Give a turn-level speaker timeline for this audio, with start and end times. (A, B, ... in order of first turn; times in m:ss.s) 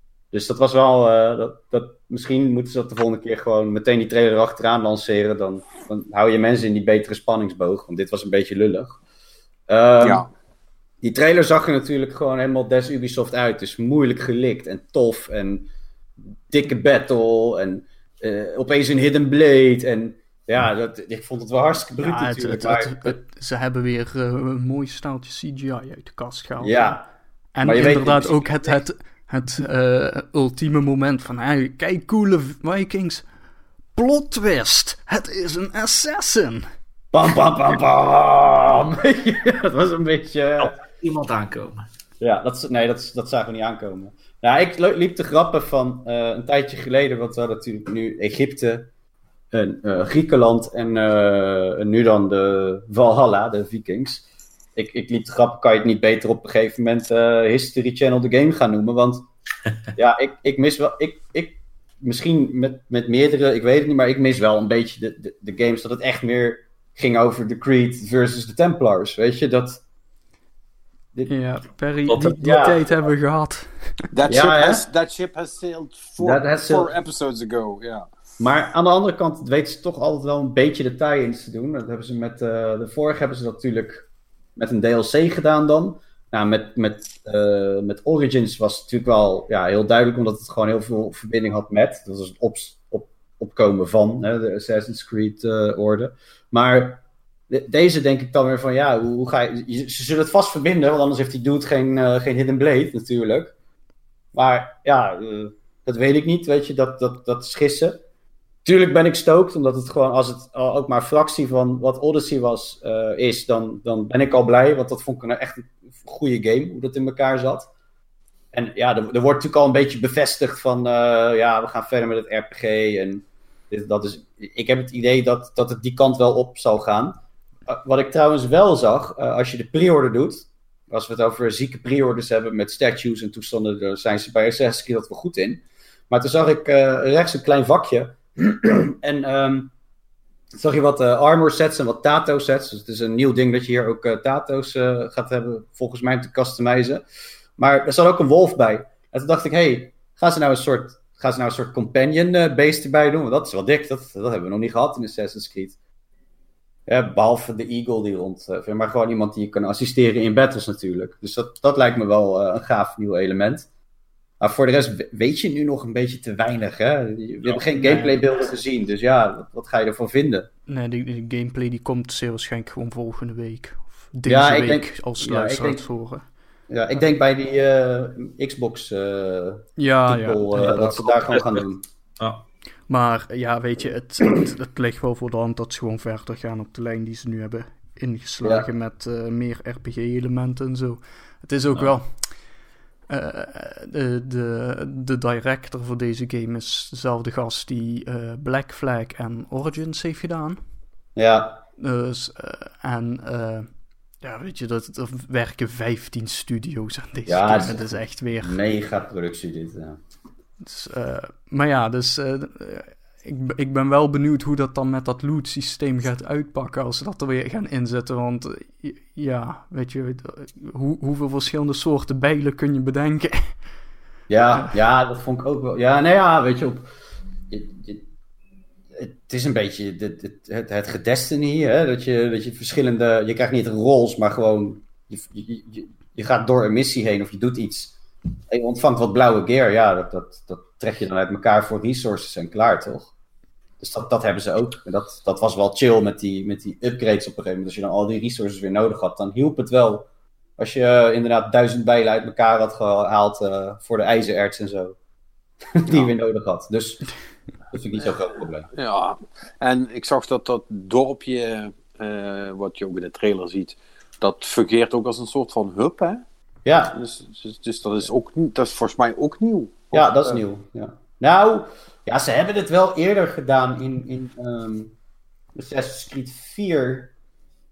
0:00.3-0:09.0 A
0:09.7-0:10.2 A
0:10.0-0:10.3 B
0:11.0-0:15.7 A
0:16.5-0:23.2 A
0:22.0-0:26.9 C
0:26.6-0:27.0 A
0:27.5-0:33.2 C
0:27.6-0:28.8 A
0:34.0-0:36.7 C
0:37.1-0:40.7 A
0:40.6-0:41.8 D
0:42.2-0:48.9 A
0:49.5-0:54.2 A
0:54.7-0:59.2 A
1:00.0-1:09.8 A
1:11.3-1:14.1 C
1:12.1-1:12.7 D
1:12.4-1:12.9 A
1:14.1-1:18.0 B
1:14.3-1:14.8 A
1:16.2-1:16.9 A
1:18.4-1:43.5 A
1:44.3-1:48.0 A
1:48.6-1:57.7 A
1:58.5-2:19.7 A
2:20.5-2:27.0 A
2:27.6-2:35.8 A
2:36.9-2:43.7 A
2:44.4-2:50.5 A
2:47.7-2:48.2 C
2:50.7-2:56.3 C
2:54.2-2:55.8 A
2:56.7-3:01.8 A
2:59.8-3:00.7 C
3:00.5-3:01.6 D
3:02.2-3:02.4 D
3:02.9-3:12.3 C
3:08.4-3:08.7 A
3:13.1-3:20.6 C
3:21.2-3:21.6 A
3:21.8-3:23.7 C
3:24.2-3:28.6 C
3:27.3-3:30.0 A
3:30.6-3:43.6 C
3:44.3-3:46.9 A
3:47.5-3:48.0 A
3:48.9-3:58.0 A
3:58.5-4:03.1 A
4:03.8-4:15.0 A
4:15.7-4:17.1 A
4:17.7-4:18.7 A
4:18.7-4:26.2 B
4:26.6-4:27.0 A
4:26.9-4:30.4 B
4:29.9-4:34.9 A
4:35.5-4:37.1 A